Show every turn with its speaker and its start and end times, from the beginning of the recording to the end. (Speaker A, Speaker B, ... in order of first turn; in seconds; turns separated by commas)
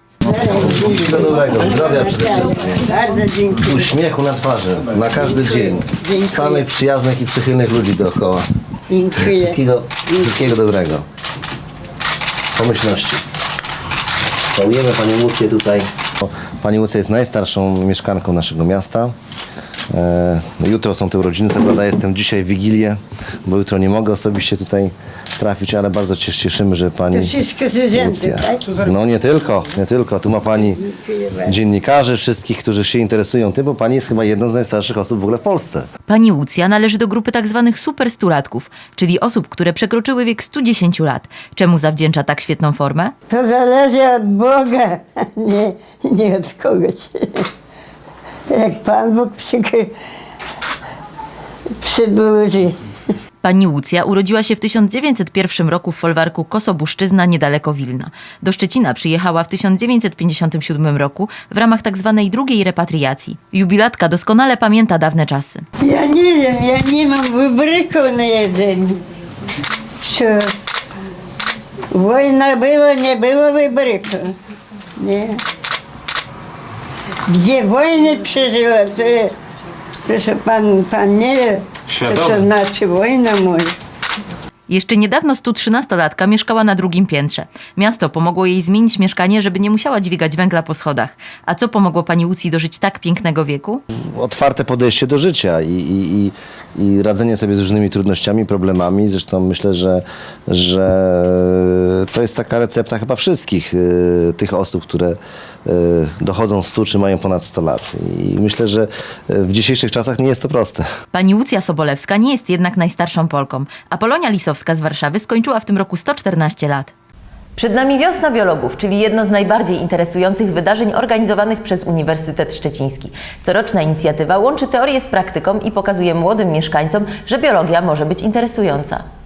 Speaker A: 0.2-4.0, Speaker B: 0.6-2.8, Speaker B: 3.7-8.4, Speaker A: 5.1-6.7, Speaker A: 8.9-10.5, Speaker B: 9.2-11.0, Speaker B: 12.6-13.2, Speaker B: 14.6-19.1, Speaker B: 19.9-27.3, Speaker A: 27.1-28.8, Speaker B: 28.0-30.8, Speaker A: 30.5-31.6, Speaker B: 31.5-35.9, Speaker C: 36.1-43.1, Speaker A: 43.3-47.5, Speaker A: 48.5-49.9, Speaker A: 51.8-52.8, Speaker C: 53.4-65.7, Speaker A: 65.8-69.0, Speaker A: 70.0-70.5, Speaker A: 71.9-74.3, Speaker A: 75.0-75.4, Speaker A: 77.3-79.3, Speaker A: 80.1-83.8, Speaker C: 84.7-93.8, Speaker B: 94.2-101.6, Speaker B: 102.1-105.2, Speaker B: 105.7-110.9, Speaker C: 111.1-116.9, Speaker C: 117.6-129.0